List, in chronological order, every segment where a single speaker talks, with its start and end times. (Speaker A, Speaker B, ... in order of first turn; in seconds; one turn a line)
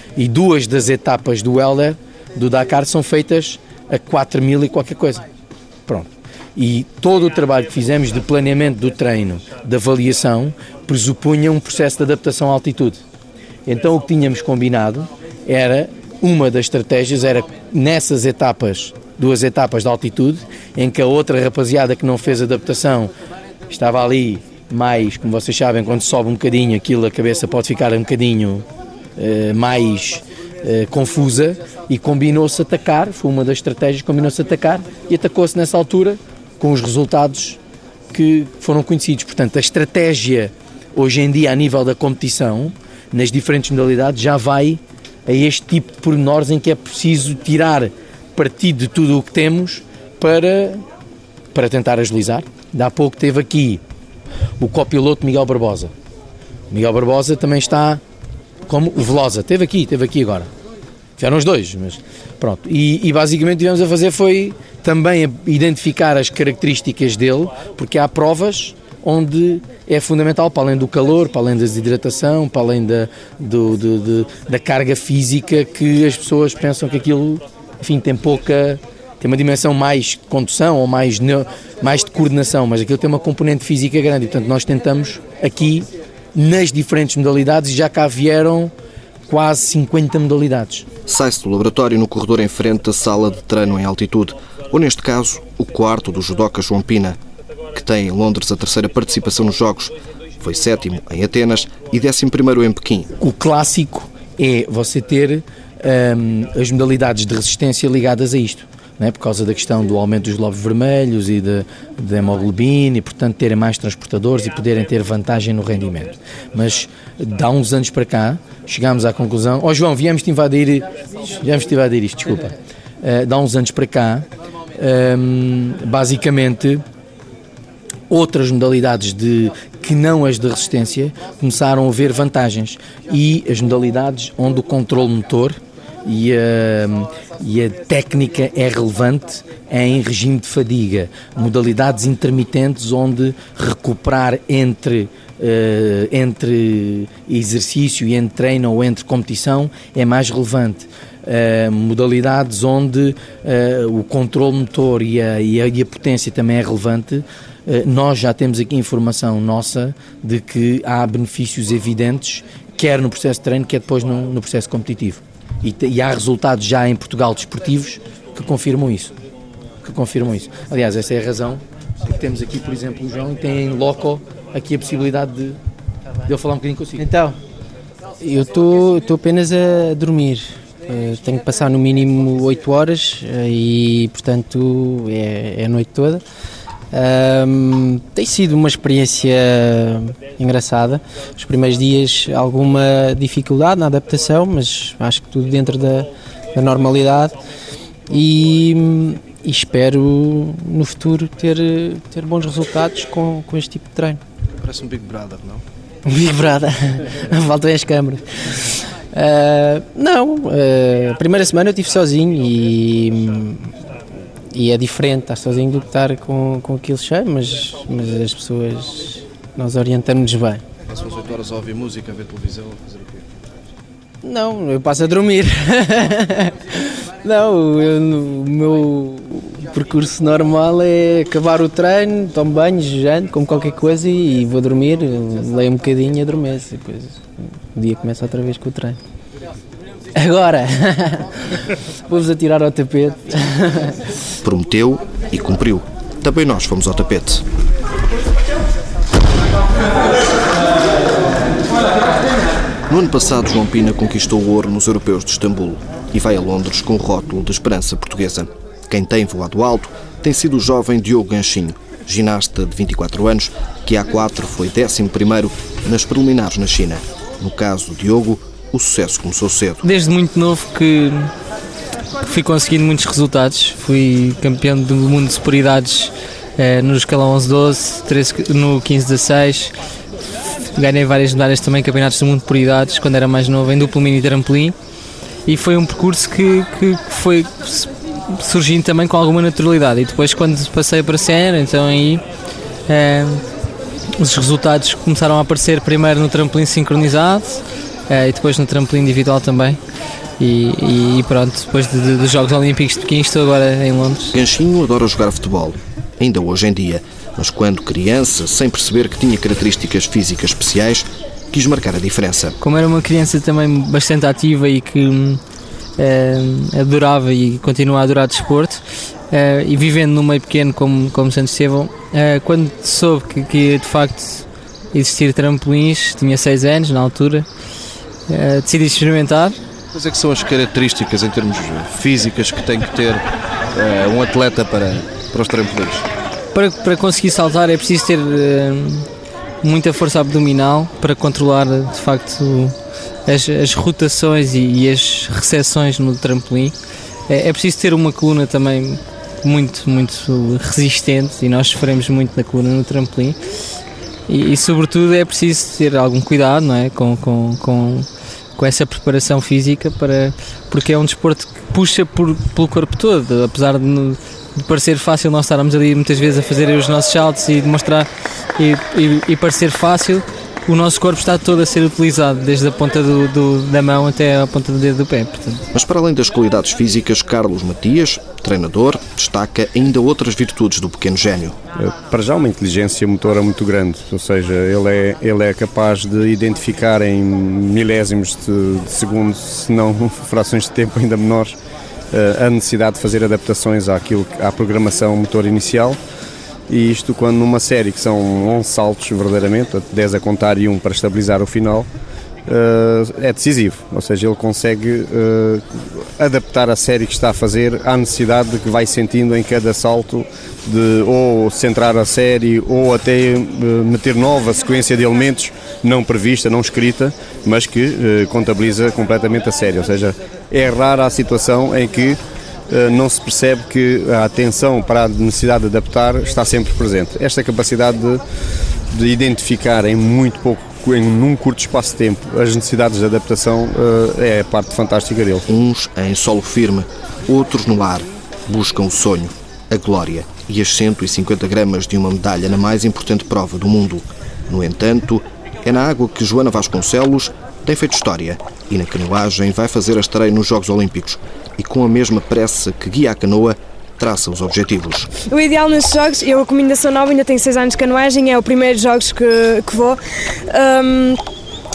Speaker A: 0.2-5.2
Speaker A: 5.9-13.0
Speaker A: 13.7-23.1
Speaker A: 23.7-28.7
Speaker A: 29.2-37.6
Speaker A: 38.1-50.8
Speaker A: 51.5-53.8
Speaker A: 54.6-55.9
Speaker A: 56.7-58.0
Speaker A: 58.7-60.5
Speaker A: 61.2-88.7
Speaker A: 89.3-90.9
Speaker B: 91.1-97.2
Speaker B: 97.7-103.1
Speaker A: 103.2-126.8
Speaker A: 128.1-169.2
Speaker A: 169.8-175.6
Speaker A: 176.3-177.1
Speaker C: 177.0-177.4
Speaker C: 178.2-186.2
Speaker C: 186.9-197.4
Speaker C: 198.1-204.2
Speaker D: 204.6-205.6
Speaker C: 206.1-213.8
Speaker C: 214.5-220.6
Speaker D: 220.9-223.2
Speaker C: 224.2-239.0
Speaker C: 240.2-241.3
Speaker C: 242.1-243.9
Speaker B: 244.4-247.4
Speaker B: 252.9-269.8
Speaker E: 269.8-271.3
Speaker E: 272.2-279.7
Speaker E: 280.8-284.8
Speaker E: 285.5-292.2
Speaker E: 292.9-293.4
Speaker E: 294.2-299.8
Speaker E: 300.4-304.4
Speaker B: 304.3-312.6
Speaker E: 312.6-315.4
Speaker E: 316.0-327.5
Speaker E: 328.3-329.6
Speaker D: 329.9-336.1
Speaker E: 336.5-339.1
Speaker E: 339.6-342.8
Speaker E: 343.3-346.8
Speaker E: 347.3-353.4
Speaker E: 354.3-375.6
Speaker B: 375.7-381.6
Speaker F: 381.8-391.6
Speaker F: 392.1-396.0
Speaker F: 396.7-401.9
Speaker F: 402.5-428.2
Speaker F: 428.9-435.4
Speaker B: 435.5-455.1
Speaker G: 455.3-461.2